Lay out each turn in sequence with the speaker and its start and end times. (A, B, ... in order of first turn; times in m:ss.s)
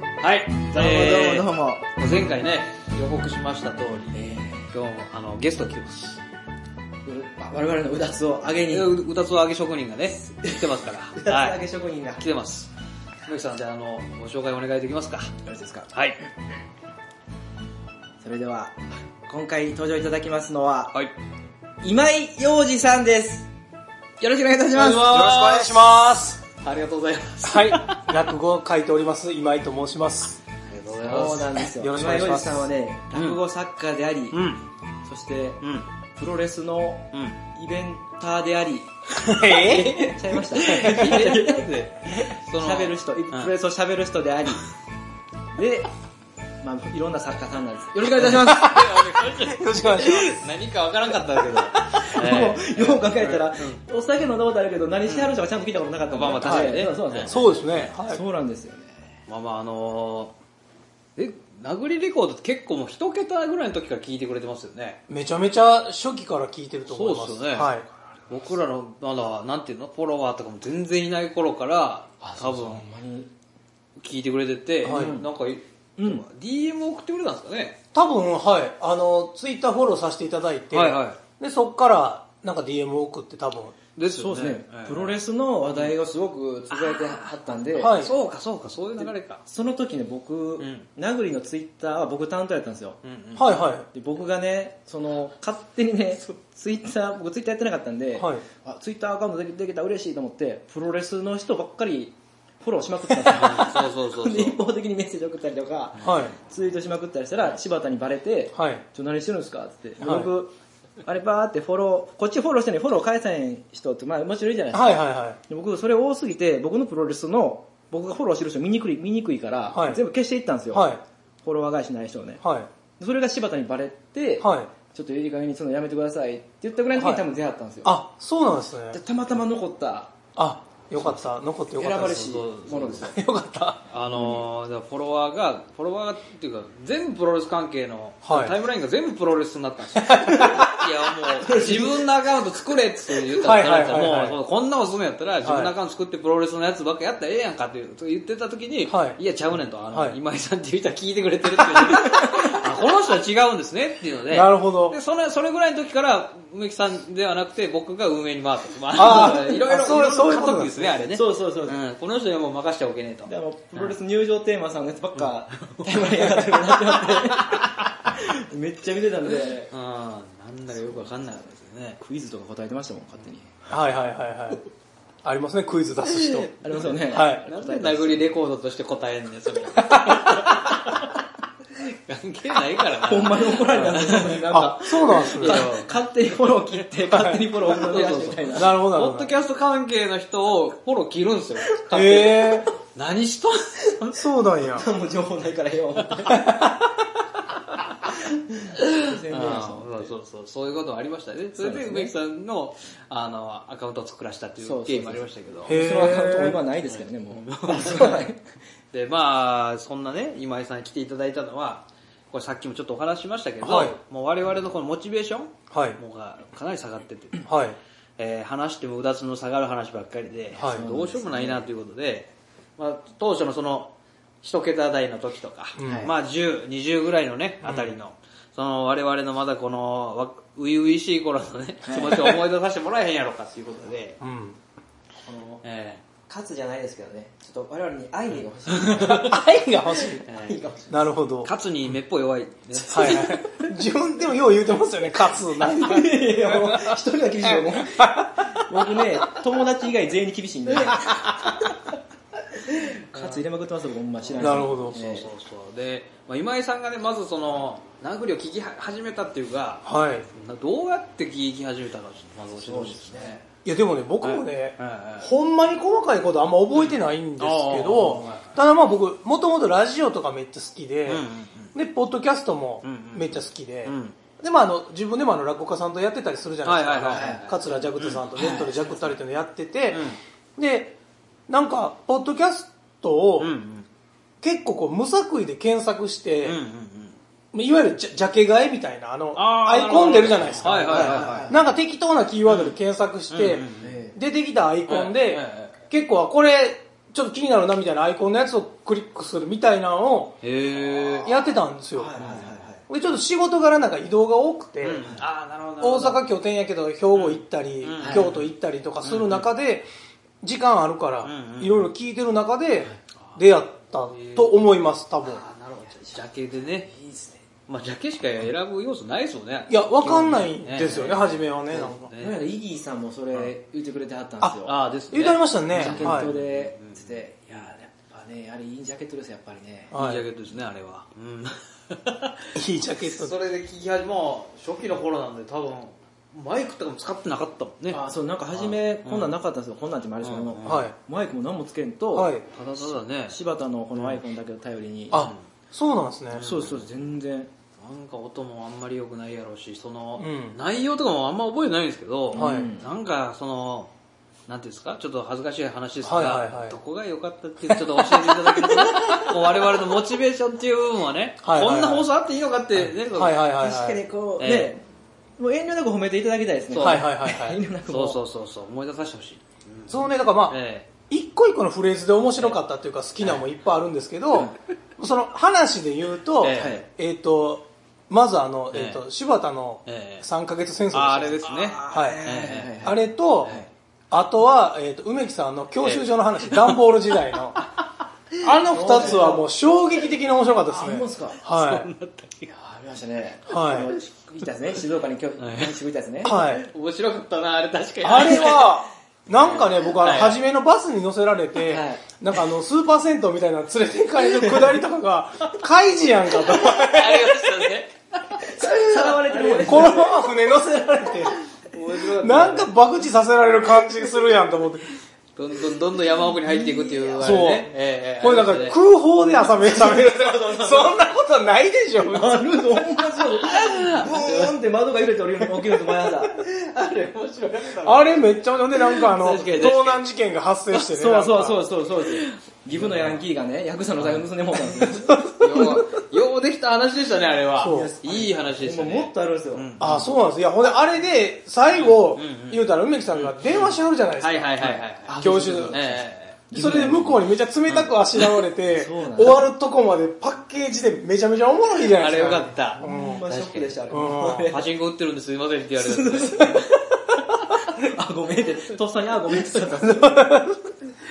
0:00.2-0:06.2 A
0:00.7-0:01.8 B
0:04.1-0:04.7 B
0:07.0-0:08.9 B
0:08.7-0:11.6 A
0:11.2-0:12.2 B
0:12.2-0:12.7 A
0:13.3-0:15.3 A
0:15.4-0:15.9 B
0:15.9-0:16.2 A
0:18.2-0:21.0 B
0:21.8-0:23.5 B
0:24.2-0:25.1 B
0:24.7-0:25.8 A
0:25.0-0:26.4 C
0:26.6-0:28.2 A
0:27.4-0:30.4 C
0:30.7-0:31.6 A
0:31.0-0:34.4 B
0:31.7-0:32.7 C
0:33.1-0:33.4 A
0:34.3-0:34.6 A
0:35.0-0:38.9 B
0:39.2-0:41.2 C
0:39.5-0:44.7 B
0:40.6-0:43.5 A
0:45.5-0:45.9 B
0:46.6-0:48.9 B
0:48.2-0:53.8 A
0:48.5-0:50.5 C
0:51.9-0:59.1 B
0:55.1-0:55.4 A
0:56.1-0:57.4 A
0:56.4-0:58.2 C
0:59.3-1:00.4 A
1:01.2-1:05.0 A
1:05.1-1:07.9 C
1:06.9-1:07.7 A
1:08.3-1:12.8 A
1:12.2-1:13.3 B
1:14.0-1:17.8 A
1:14.8-1:15.2 C
1:14.9-1:15.3 B
1:16.0-1:16.2 B
1:17.9-1:23.8 C
1:20.7-1:21.2 A
1:24.0-1:25.2 A
1:24.1-1:28.0 B
1:25.7-1:26.0 A
1:26.7-1:29.4 A
1:27.8-1:28.1 C
1:29.0-1:33.0 B
1:30.6-1:30.9 A
1:33.0-1:33.6 A
1:33.4-1:33.9 C
1:33.9-1:50.5 B
1:38.2-1:38.4 C
1:43.3-1:44.6 A
1:46.0-1:46.4 C
1:48.6-1:48.8 C
1:50.0-1:50.3 C
1:51.0-2:00.9 B
1:54.7-1:55.4 C
1:59.7-2:00.0 C
2:00.7-2:01.0 C
2:01.4-2:02.4 B
2:02.4-2:02.7 C
2:03.0-2:07.9 B
2:04.4-2:04.7 C
2:07.0-2:07.2 C
2:07.8-2:09.0 C
2:08.9-2:10.1 B
2:10.4-2:12.3 C
2:11.8-2:13.2 B
2:11.8-2:13.1 A
2:13.1-2:13.9 C
2:13.9-2:44.0 A
2:18.2-2:18.6 C
2:20.0-2:20.7 C
2:20.3-2:20.6 B
2:21.4-2:22.1 B
2:23.4-2:24.4 C
2:25.4-2:25.7 C
2:28.9-2:29.2 C
2:29.9-2:30.2 C
2:31.8-2:32.2 C
2:34.3-2:35.0 C
2:38.9-2:41.1 C
2:41.1-2:41.8 B
2:43.3-2:49.7 B
2:45.2-2:47.6 A
2:49.7-2:52.0 A
2:52.0-2:53.6 B
2:53.7-2:54.6 C
2:55.2-2:56.5 C
2:56.1-3:01.1 A
2:56.6-2:58.3 B
2:57.1-2:57.4 C
2:59.9-3:00.6 C
3:01.8-3:04.5 A
3:03.0-3:08.7 B
3:04.5-3:05.7 C
3:05.2-3:06.0 A
3:07.1-3:07.6 C
3:07.6-3:14.2 A
3:08.5-3:09.3 C
3:11.9-3:12.7 C
3:14.1-3:14.9 C
3:14.7-3:16.6 B
3:16.3-3:17.0 C
3:18.1-3:20.1 B
3:18.8-3:25.8 A
3:21.6-3:22.1 B
3:24.6-3:28.4 B
3:25.7-3:26.6 C
3:26.8-3:28.3 A
3:28.9-3:37.5 A
3:33.6-3:34.0 C
3:35.7-3:36.0 C
3:37.4-3:37.8 C
3:38.2-3:54.2 A
3:40.5-3:40.9 C
3:40.6-3:41.7 B
3:45.8-3:46.1 C
3:45.8-3:46.1 B
3:47.6-3:47.9 C
3:51.8-3:52.4 B
3:54.2-3:54.6 C
3:55.2-3:55.6 B
3:55.6-3:56.0 A
3:56.3-4:01.0 B
3:58.7-3:59.3 A
3:59.0-4:00.2 C
4:00.3-4:00.6 A
4:00.9-4:01.5 C
4:01.4-4:03.4 A
4:02.8-4:03.4 B
4:02.9-4:09.2 C
4:05.6-4:11.4 B
4:11.0-4:11.6 C
4:12.6-4:15.3 B
4:13.1-4:13.4 A
4:14.3-4:23.4 A
4:14.4-4:15.0 C
4:19.8-4:20.3 C
4:22.6-4:23.4 B
4:23.6-4:40.0 C
4:24.2-4:25.3 A
4:26.7-4:28.4 A
4:31.1-4:31.8 A
4:32.8-4:34.2 A
4:36.6-4:38.8 A
4:37.1-4:37.8 B
4:39.9-4:40.2 A
4:40.6-4:41.0 C
4:41.5-4:43.5 C
4:43.4-4:43.9 A
4:44.4-4:46.6 C
4:46.4-4:47.2 A
4:47.5-5:00.4 C
4:49.4-4:51.5 A
4:50.6-4:51.6 B
4:52.5-4:52.8 A
4:53.3-4:54.0 A
4:53.8-4:54.2 B
4:54.9-4:55.8 A
5:00.4-5:01.4 A
5:01.2-5:05.0 C
5:02.0-5:02.8 B
5:02.2-5:02.5 A
5:04.8-5:06.2 A
5:05.8-5:09.9 C
5:07.1-5:08.5 A
5:09.0-5:09.5 A
5:10.4-5:15.4 C
5:11.2-5:11.9 A
5:14.0-5:14.6 A
5:15.2-5:16.9 A
5:15.8-5:17.4 B
5:17.7-5:22.4 A
5:19.7-5:22.1 C
5:22.2-5:24.8 B
5:24.6-5:27.6 A
5:25.1-5:26.3 C
5:25.8-5:29.9 B
5:29.9-5:30.3 C
5:30.0-5:38.0 A
5:32.6-5:33.3 C
5:37.9-5:45.2 B
5:38.5-5:39.4 A
5:40.2-5:40.9 A
5:40.6-5:41.0 C
5:42.1-5:42.5 C
5:42.5-5:43.4 A
5:45.1-5:46.5 C
5:45.1-5:45.4 A
5:46.3-5:46.9 A
5:46.4-5:47.5 B
5:47.8-5:53.9 A
5:50.2-5:50.6 C
5:52.3-5:52.9 B
5:52.3-5:52.7 C
5:54.5-6:03.4 A
5:56.0-5:56.8 C
5:57.7-5:59.7 C
6:01.4-6:02.1 C
6:02.8-6:04.0 C
6:03.6-6:04.8 B
6:04.4-6:04.7 A
6:05.4-6:08.2 B
6:06.8-6:07.1 A
6:06.8-6:07.6 C
6:07.9-6:10.9 A
6:09.9-6:22.2 C
6:16.4-6:16.8 A
6:16.5-6:16.9 B
6:18.7-6:19.0 A
6:19.9-6:20.3 A
6:20.9-6:22.9 A
6:21.4-6:23.7 B
6:22.8-6:27.6 C
6:25.8-6:26.8 A
6:28.4-6:31.9 C
6:28.7-6:29.5 B
6:30.7-6:31.4 B
6:31.5-6:32.5 A
6:32.5-6:36.3 B
6:33.5-6:33.9 C
6:35.4-6:38.8 A
6:36.2-6:36.7 C
6:38.0-6:47.7 C
6:39.3-6:40.4 A
6:41.7-6:42.0 B
6:46.5-6:50.0 A
6:48.4-6:50.3 B
6:49.6-6:51.3 C
6:51.6-6:52.7 A
6:52.2-6:54.8 C
6:55.4-6:58.8 A
6:56.1-6:57.5 B
6:57.2-7:02.4 C
6:59.3-7:01.1 B
7:02.0-7:06.4 B
7:03.4-7:04.5 A
7:06.2-7:10.1 A
7:07.8-7:11.6 C
7:10.7-7:15.8 B
7:12.0-7:13.2 A
7:14.0-7:20.0 A
7:15.0-7:15.9 C
7:17.6-7:17.9 C
7:17.6-7:20.0 B
7:19.8-7:25.8 C
7:21.7-7:26.4 A
7:24.7-7:27.2 B
7:26.5-7:33.2 C
7:27.7-7:28.4 A
7:28.7-7:29.5 B
7:31.9-7:33.8 A
7:32.8-7:34.7 B
7:33.9-7:34.5 C
7:34.5-7:36.7 A
7:35.8-7:36.6 B
7:37.5-7:40.3 B
7:39.7-7:40.7 C